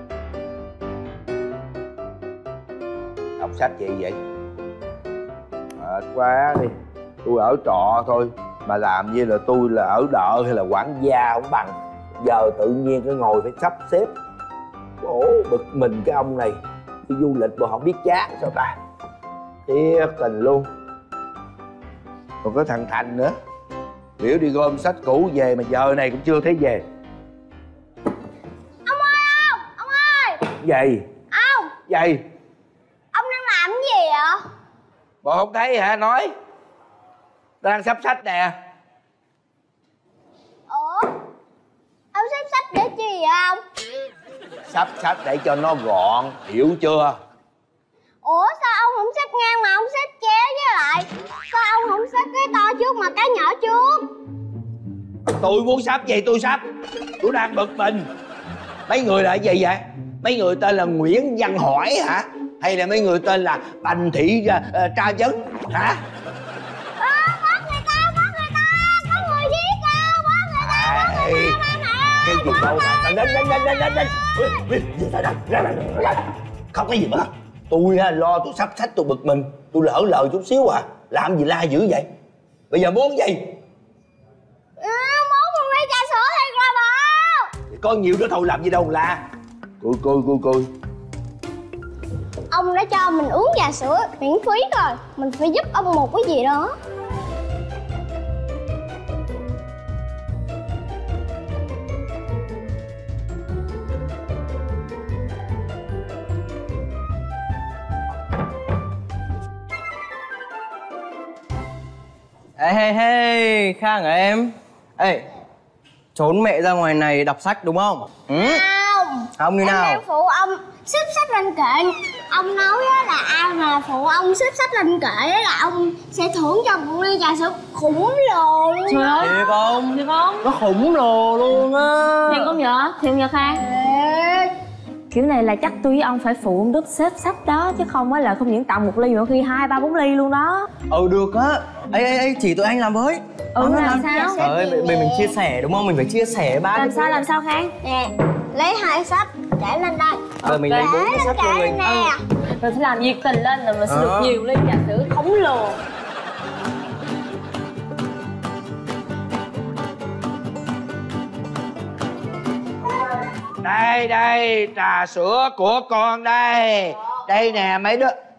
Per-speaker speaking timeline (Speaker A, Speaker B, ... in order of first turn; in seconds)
Speaker A: 3.4-4.2, 5.8-14.1, 15.0-18.8, 19.7-20.6, 22.4-23.3, 24.2-26.8, 30.6-31.0, 31.9-32.2, 35.2-36.3, 37.6-38.5, 44.7-47.1, 55.3-56.6, 57.2-58.0, 58.9-65.9, 70.6-71.6, 72.2-82.1, 82.7-83.4, 87.7-89.2, 89.8-90.7, 163.6-168.1
Speaker B: 28.9-30.4, 31.3-31.7, 33.1-34.4, 40.7-41.1, 42.1-43.6, 48.2-54.1, 67.0-74.4, 84.8-87.5, 92.5-96.7, 118.4-129.6, 133.6-134.5, 143.8-145.4, 147.8-152.2
Speaker C: 112.6-115.3, 116.1-118.6, 119.4-120.0, 129.2-132.6, 140.9-147.2, 150.4-151.9, 153.9-154.3
Speaker D: 128.9-130.5, 132.3-133.6, 135.1-140.7, 143.6-144.4, 146.7-147.7, 150.5-151.0, 151.8-155.8